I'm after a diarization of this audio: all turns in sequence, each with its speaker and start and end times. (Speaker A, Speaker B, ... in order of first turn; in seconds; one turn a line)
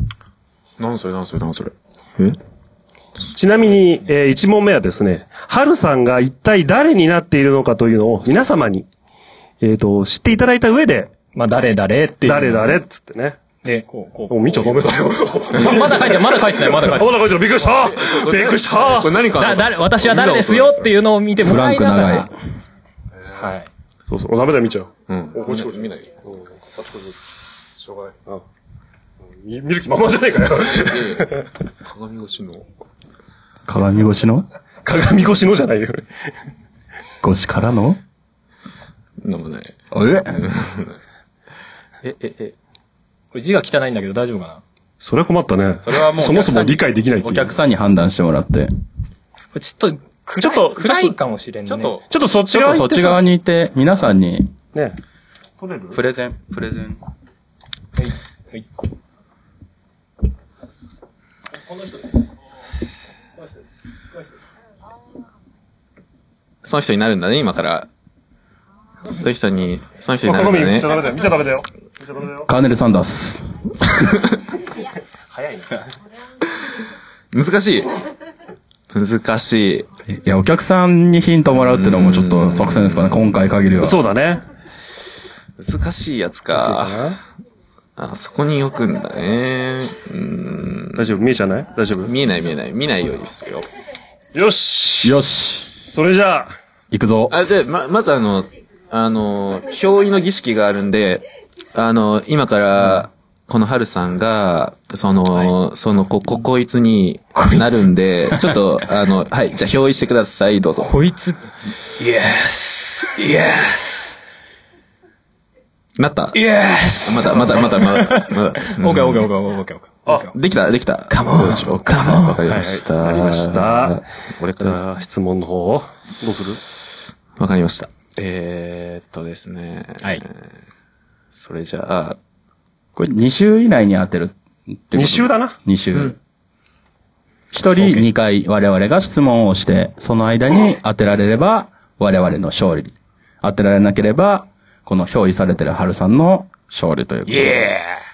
Speaker A: 0.8-2.4
Speaker B: 3.3-8.9
Speaker B: 9.6-11.1
Speaker C: 11.3-12.7
Speaker B: 12.2-13.4
Speaker C: 13.6-14.9
Speaker B: 14.3-19.2
Speaker C: 15.5-17.1
Speaker A: 15.5-16.0
Speaker A: 17.6-20.9
Speaker C: 19.4-22.3
Speaker D: 21.4-22.3
Speaker C: 23.4-23.7
Speaker B: 24.1-27.1
Speaker A: 25.1-26.1
Speaker B: 29.4-31.4
Speaker A: 30.7-32.6
Speaker D: 33.7-34.5
Speaker B: 34.8-36.0
Speaker D: 37.2-38.0
Speaker A: 39.2-40.9
Speaker D: 39.9-40.5
Speaker D: 42.0-42.5
Speaker C: 43.3-44.6
Speaker B: 45.0-47.5
Speaker D: 45.8-48.7
Speaker C: 49.5-52.0
Speaker B: 50.4-51.1
Speaker D: 51.7-54.5
Speaker B: 52.1-53.2
Speaker B: 55.6-55.9
Speaker D: 55.9-57.0
Speaker C: 58.0-58.6
Speaker A: 66.6-67.9
Speaker A: 69.1-71.0
Speaker B: 70.2-72.5
Speaker D: 72.5-73.9
Speaker B: 75.3-75.7
Speaker A: 77.3-77.9
Speaker A: 78.9-79.9
Speaker D: 80.1-84.0
Speaker A: 81.5-83.5
Speaker B: 83.8-84.4
Speaker A: 85.6-87.2
Speaker B: 86.5-87.2
Speaker A: 88.0-91.1
Speaker B: 90.9-92.1
Speaker A: 92.0-93.7
Speaker B: 94.3-95.2
Speaker D: 95.0-95.8
Speaker B: 95.9-96.5
Speaker D: 96.9-97.4
Speaker A: 97.3-111.0
Speaker C: 107.3-107.6
Speaker C: 110.8-111.4
Speaker C: 112.0-114.2
Speaker A: 116.0-116.4
Speaker C: 116.3-120.3
Speaker A: 117.0-119.3
Speaker A: 120.2-124.8
Speaker C: 121.1-122.4
Speaker B: 122.5-124.0
Speaker B: 124.6-126.6
Speaker A: 127.4-130.3
Speaker A: 131.3-132.2
Speaker D: 132.9-136.2
Speaker B: 134.9-135.6
Speaker D: 137.5-147.7
Speaker C: 137.8-138.1
Speaker C: 147.3-148.0